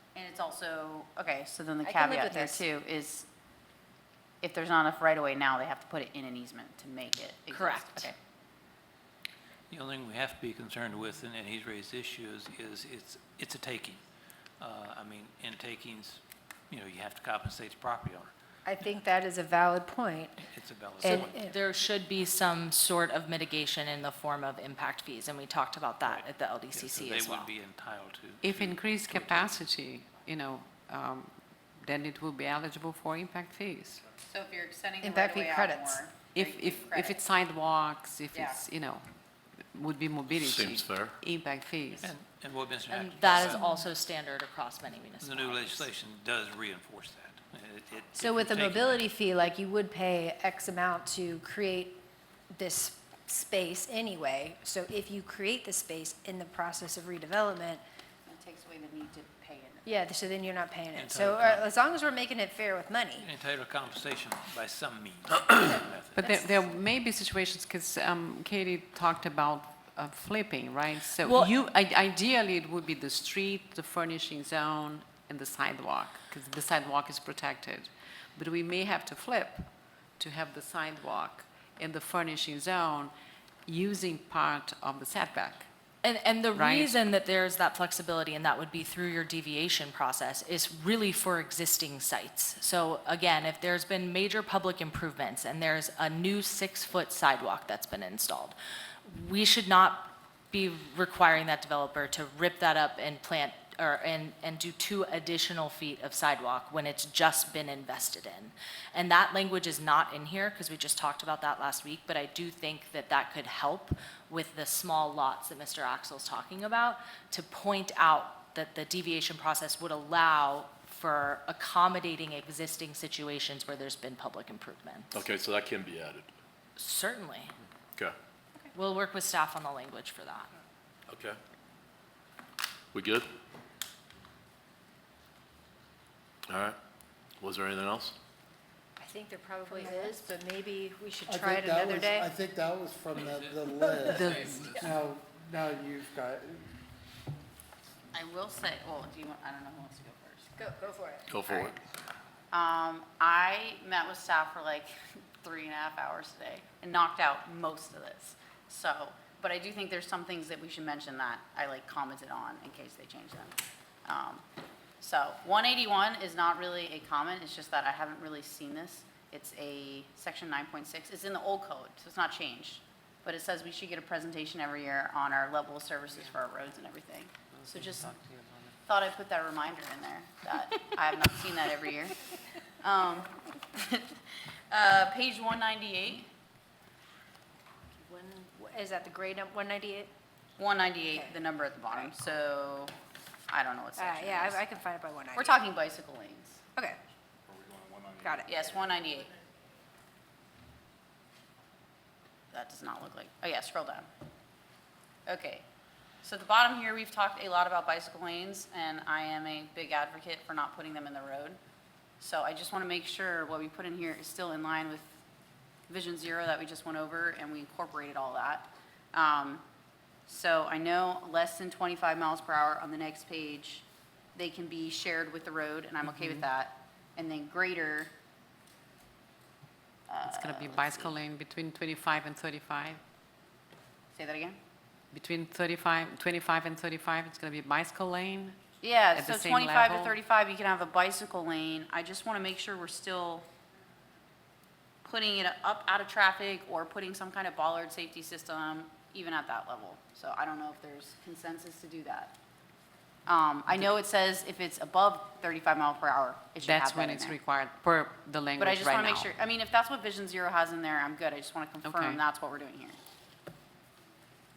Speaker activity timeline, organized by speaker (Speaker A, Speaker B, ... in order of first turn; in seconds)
Speaker A: 0.1-3.3, 4.4-8.1, 34.2-37.3, 38.3-38.6, 58.3-59.9, 148.1-150.6, 151.5-151.7, 152.5-164.4, 165.0-178.1, 178.8-182.2, 182.8-186.3, 190.6-192.9, 193.5-194.6, 195.3-196.6, 198.4-199.3, 202.5-204.1, 205.2-205.6, 206.2-211.6, 212.2-215.2, 215.9-219.6, 220.3-223.8, 224.3-228.1, 230.1-231.2, 234.1-234.6, 238.8-243.4, 245.0-252.3, 253.3-257.4, 258.6-263.0
Speaker B: 1.8-2.6, 18.6-20.4, 21.0-21.5, 35.0-36.0, 48.1-57.8, 59.8-63.3, 66.2-66.5, 139.0-142.3, 144.1-144.6, 150.6-151.3, 187.9-190.1, 191.1-191.4, 194.0-195.6, 198.2-198.5
Speaker C: 7.5-8.1, 21.0-27.5, 42.9-45.9, 71.2-71.5, 86.0-125.1, 126.8-127.5, 128.7-130.5
Speaker D: 9.7-14.0, 14.6-18.3, 20.5-21.3, 26.1-29.7, 42.0-43.8, 45.2-49.1, 60.9-61.7, 63.2-66.3, 143.2-144.8
Speaker E: 28.4-34.0, 36.3-39.1, 39.7-42.1, 66.2-83.1, 83.7-85.7, 86.5-87.0, 176.1-176.6, 177.5-178.7, 230.3-233.0, 235.1-238.6, 239.1-240.2, 256.6-259.3, 261.8-262.2
Speaker F: 40.3-41.1, 125.1-126.3, 131.1-131.4, 132.9-133.3, 136.5-136.8, 137.4-138.1, 151.3-151.8
Speaker G: 141.3-146.7, 197.5-198.4